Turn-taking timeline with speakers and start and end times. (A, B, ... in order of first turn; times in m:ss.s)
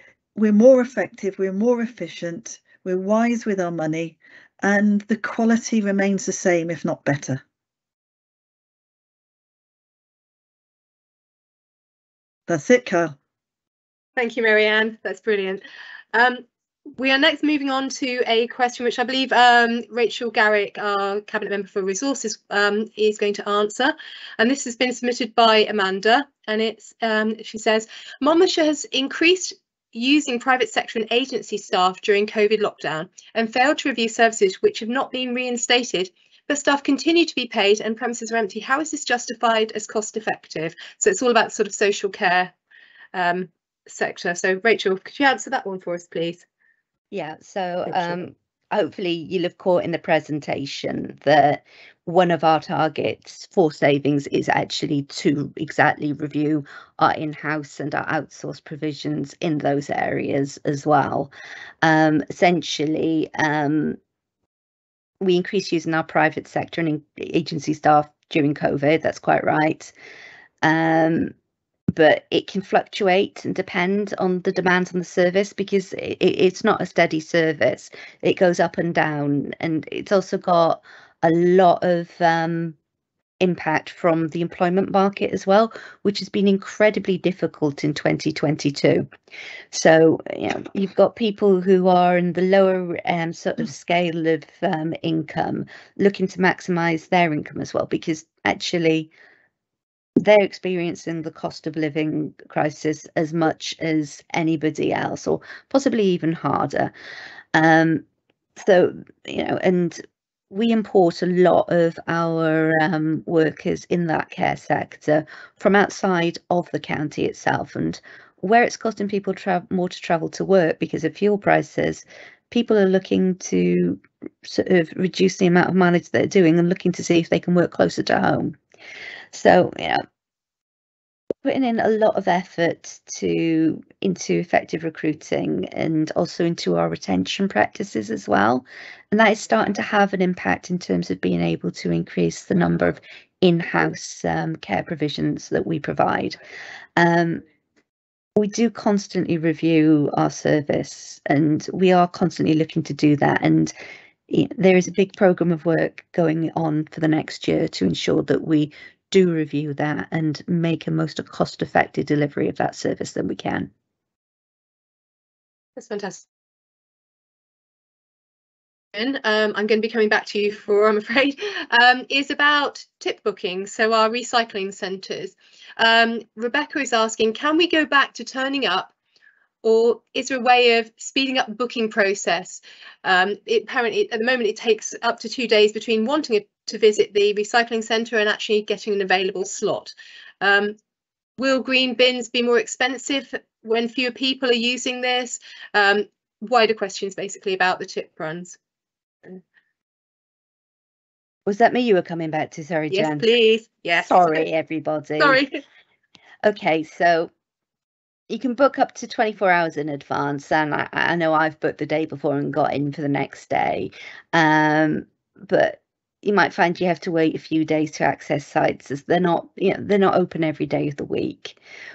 0:00.4-0:07.4 A
0:12.5-0:13.2 A
0:14.2-0:15.6 B
0:16.1-0:16.4 B
0:17.0-0:42.5 B
0:43.1-0:46.5 B
0:47.1-1:01.3 C
0:47.9-0:48.2 B
1:01.8-1:04.0 C
1:05.2-1:09.9 C
1:10.6-1:11.3 C
1:11.9-1:22.8 C
1:23.4-1:29.1 C
1:29.7-1:39.1 C
1:40.2-1:46.9 C
1:47.5-1:48.0 C
1:48.6-2:08.6 C
2:09.3-2:10.0 C
2:11.4-2:26.4 C
2:27.0-2:27.4 C
2:28.4-2:33.7 C
2:34.3-2:43.7 C
2:45.8-2:46.2 B
2:48.9-2:58.9 B
2:59.6-3:10.8 B
3:11.4-3:18.6 B
3:21.5-3:23.3 C
3:22.9-3:24.4 B
3:24.0-3:25.4 C
3:25.2-3:25.6 B
3:26.4-3:27.3 C
3:28.3-3:41.6 C